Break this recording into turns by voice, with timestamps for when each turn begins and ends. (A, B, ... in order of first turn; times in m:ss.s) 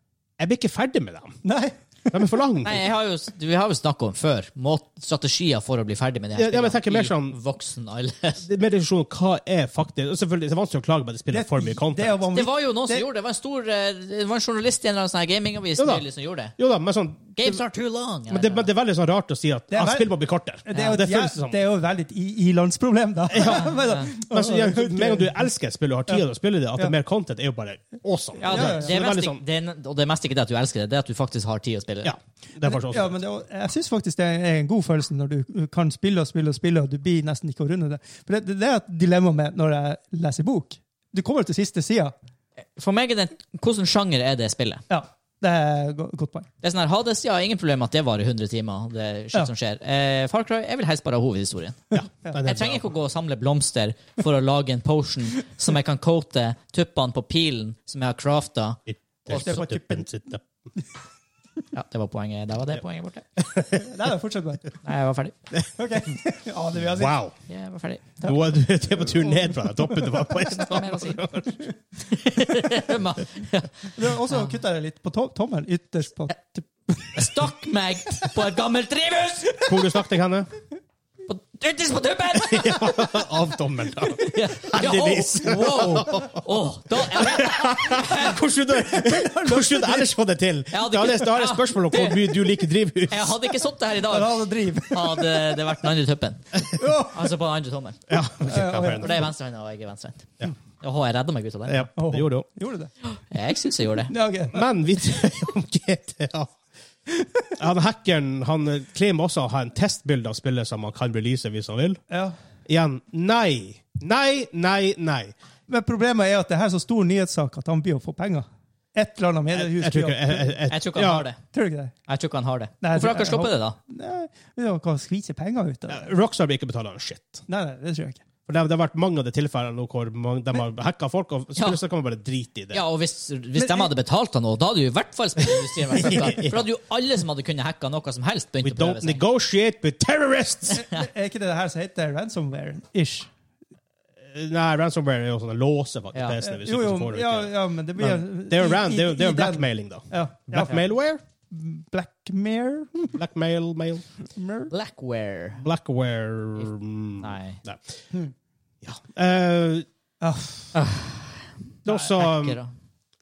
0:00.4-0:01.4 A
0:01.4-0:02.3 B
0:02.1-0:02.8 A
0:02.6-0:08.4 C
0:06.4-0:07.4 A
0:08.4-0:12.2 A
0:11.3-0:13.1 B
0:12.3-0:16.5 C
0:15.8-0:16.0 A
0:16.6-0:17.6 A
0:17.4-0:18.7 C
0:18.3-0:21.6 A
0:19.7-0:25.5 B
0:20.7-0:21.0 C
0:23.3-0:29.4 A
0:23.5-0:24.1 C
0:28.4-0:32.1 C
0:28.5-0:29.0 B
0:32.0-0:33.2 A
0:32.6-0:42.1 B
0:42.8-0:44.8 C
0:44.9-0:46.5 B
0:46.6-0:51.9 C
0:51.9-0:52.9 A
0:52.4-0:59.6 C
0:58.9-1:00.4 A
0:59.3-1:00.2 B
1:01.7-1:03.3 C
1:03.4-1:03.9 A
1:03.8-1:04.8 B
1:04.8-1:05.4 C
1:05.8-1:07.2 B
1:07.0-1:07.4 A
1:07.5-1:08.1 C
1:08.2-1:09.7 B
1:08.2-1:11.6 A
1:10.4-1:11.2 C
1:12.1-1:14.4 C
1:14.0-1:17.4 B
1:17.2-1:19.6 C
1:19.6-1:20.5 A
1:21.3-1:23.0 C
1:22.4-1:26.4 A
1:24.2-1:28.4 C
1:27.0-1:33.4 A
1:28.8-1:30.1 B
1:30.7-1:32.4 C
1:33.1-1:38.0 C
1:34.1-1:35.6 B
1:36.8-1:37.3 B
1:38.1-1:39.3 A
1:38.4-1:39.2 B
1:39.0-1:41.9 C
1:41.7-1:42.5 A
1:42.0-1:42.9 B
1:43.2-1:44.1 C
1:44.1-1:44.6 B
1:44.5-1:46.6 A
1:47.1-1:47.5 B
1:47.6-1:52.0 A
1:52.1-1:52.4 B
1:52.7-1:55.4 A
1:55.7-2:00.6 B
1:59.5-2:01.3 A
2:00.7-2:01.4 C
2:01.5-2:01.9 B
2:02.1-2:03.8 C
2:02.8-2:06.1 B
2:05.9-2:07.4 A
2:07.5-2:08.2 B
2:08.5-2:12.8 A
2:12.7-2:19.2 C
2:13.6-2:13.9 B
2:15.9-2:16.6 A
2:18.6-2:20.8 A
2:20.7-2:23.3 B
2:24.3-2:31.2 A
2:26.4-2:30.9 B
2:31.5-2:33.2 B
2:33.1-2:34.1 A
2:34.4-2:34.7 B
2:34.7-2:35.6 C
2:35.6-2:38.0 A
2:37.2-2:37.6 C
2:38.8-2:39.9 A
2:40.2-2:40.8 B
2:40.8-2:42.7 C
2:41.8-2:42.6 A